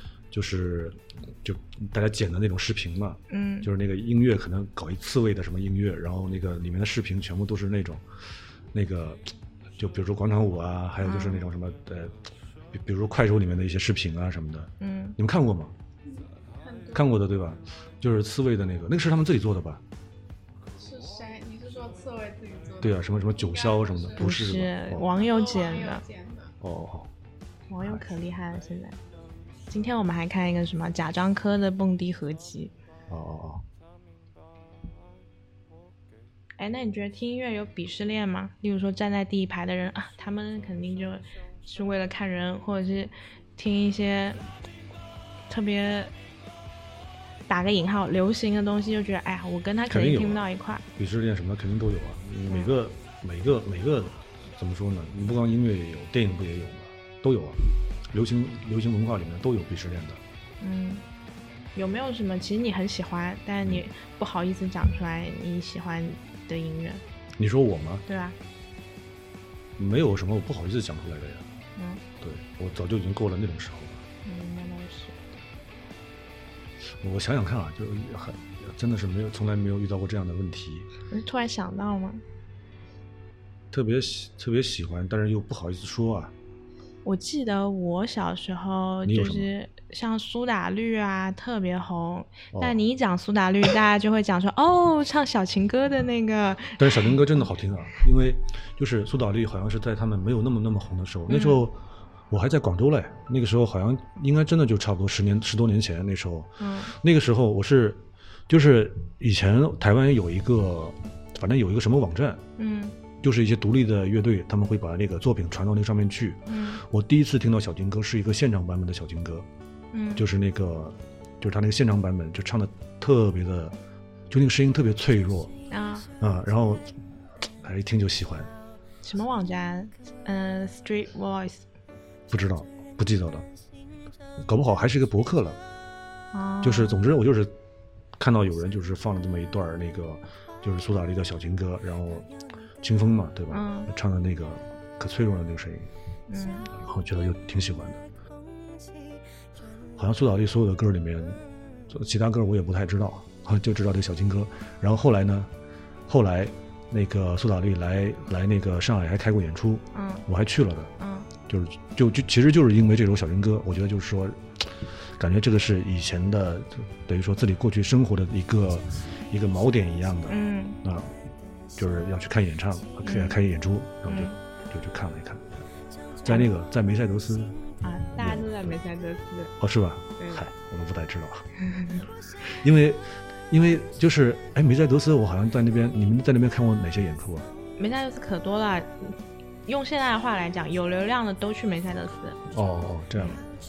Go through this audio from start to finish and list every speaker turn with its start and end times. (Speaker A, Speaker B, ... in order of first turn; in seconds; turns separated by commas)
Speaker A: 0.3-15.7, Speaker B: 3.3-3.7, Speaker B: 11.0-11.5, Speaker B: 14.8-15.2, Speaker C: 16.0-17.2, Speaker A: 16.9-19.8, Speaker C: 20.8-24.3, Speaker A: 22.8-25.1, Speaker B: 24.2-26.0, Speaker C: 24.9-26.5, Speaker A: 26.6-27.1, Speaker B: 27.7-29.0, Speaker B: 29.7-32.7, Speaker A: 33.1-33.6, Speaker B: 36.6-44.4, Speaker B: 45.5-46.1, Speaker B: 47.5-50.9, Speaker A: 49.9-60.2, Speaker B: 52.5-52.7, Speaker B: 60.6-61.0, Speaker B: 61.8-67.0, Speaker A: 67.4-68.0, Speaker B: 68.1-68.4, Speaker A: 69.8-71.5, Speaker B: 71.8-72.0, Speaker A: 72.2-74.0, Speaker B: 74.2-75.2, Speaker A: 76.9-80.9, Speaker B: 81.1-82.2, Speaker A: 83.7-86.3, Speaker B: 87.0-97.4, Speaker A: 89.0-89.5, Speaker A: 96.8-112.4, Speaker B: 101.3-101.6, Speaker B: 106.6-106.9, Speaker B: 112.6-113.0, Speaker A: 113.2-119.5, Speaker B: 116.5-116.8, Speaker B: 119.9-120.2, Speaker A: 120.2-123.8, Speaker A: 124.3-125.5, Speaker B: 125.7-126.1, Speaker A: 126.2-128.5, Speaker B: 129.0-131.7, Speaker A: 132.3-133.5, Speaker A: 134.4-135.6, Speaker B: 136.3-137.0, Speaker A: 136.6-137.6, Speaker A: 138.2-145.9, Speaker B: 143.5-143.9, Speaker B: 146.3-146.7, Speaker A: 146.8-148.0, Speaker A: 150.0-155.5, Speaker A: 156.1-160.9, Speaker B: 159.9-160.2, Speaker B: 161.0-161.3, Speaker A: 161.5-171.2, Speaker B: 170.3-170.8, Speaker A: 171.8-175.7, Speaker B: 173.0-173.4, Speaker B: 174.1-174.4, Speaker A: 176.2-177.6, Speaker B: 177.8-179.5, Speaker A: 178.2-178.7, Speaker A: 179.6-181.5, Speaker B: 180.2-180.5, Speaker B: 181.6-182.1, Speaker A: 182.4-187.5, Speaker B: 187.8-192.4, Speaker A: 192.5-193.4